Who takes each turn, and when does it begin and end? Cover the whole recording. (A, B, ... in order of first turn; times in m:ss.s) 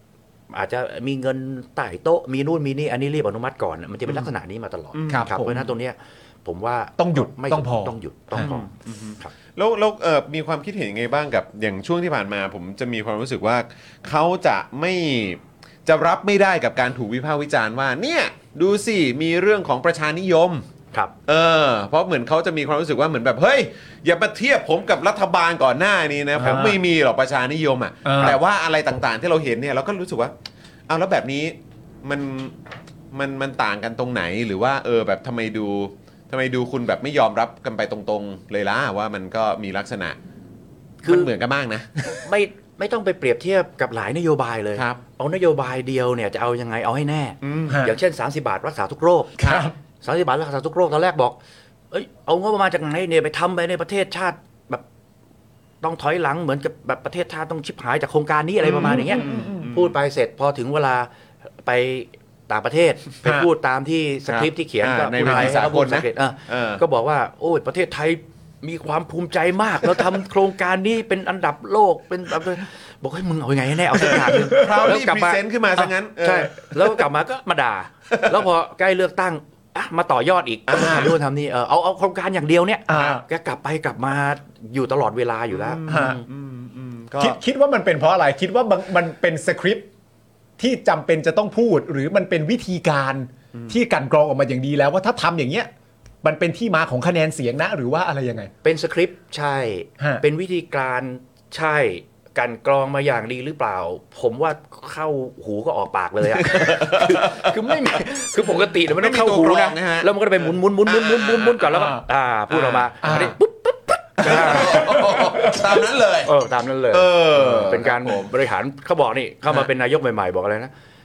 0:00.5-0:09.3 A
0:04.9-0:05.7 B
0:05.1-0:05.6 C
0:07.0-0:08.0 C
0:08.3-0:20.6 B
0:21.3-0:30.3 B
0:26.4-0:26.7 C
0:26.4-0:26.8 A
0:28.0-0:28.4 C
0:30.9-0:32.6 B
0:33.1-0:40.2 B
0:41.0-0:41.3 A
0:41.1-0:42.2 B
0:42.1-0:51.4 A
0:47.4-0:47.9 B
0:49.4-0:49.7 B
0:49.4-0:49.7 C
0:51.9-0:54.8 A
0:55.8-1:01.1 A
0:58.6-1:00.0 B
1:01.6-1:26.2 A
1:03.2-1:03.5 B
1:04.3-1:06.8 B
1:05.2-1:05.6 C
1:14.1-1:17.0 B
1:18.1-1:18.4 B
1:20.7-1:21.2 B
1:22.9-1:23.2 C
1:25.5-1:27.4 B
1:25.9-1:26.2 C
1:27.2-1:29.8 C
1:30.6-1:35.7 C
1:36.2-1:38.5 C
1:38.6-1:55.3 A
1:46.4-1:48.0 B
1:48.7-1:52.0 B
1:52.5-1:53.3 B
1:53.0-1:53.3 C
1:54.2-1:56.3 B
1:54.7-1:55.6 C
1:56.2-2:00.7 A
1:56.9-1:58.3 B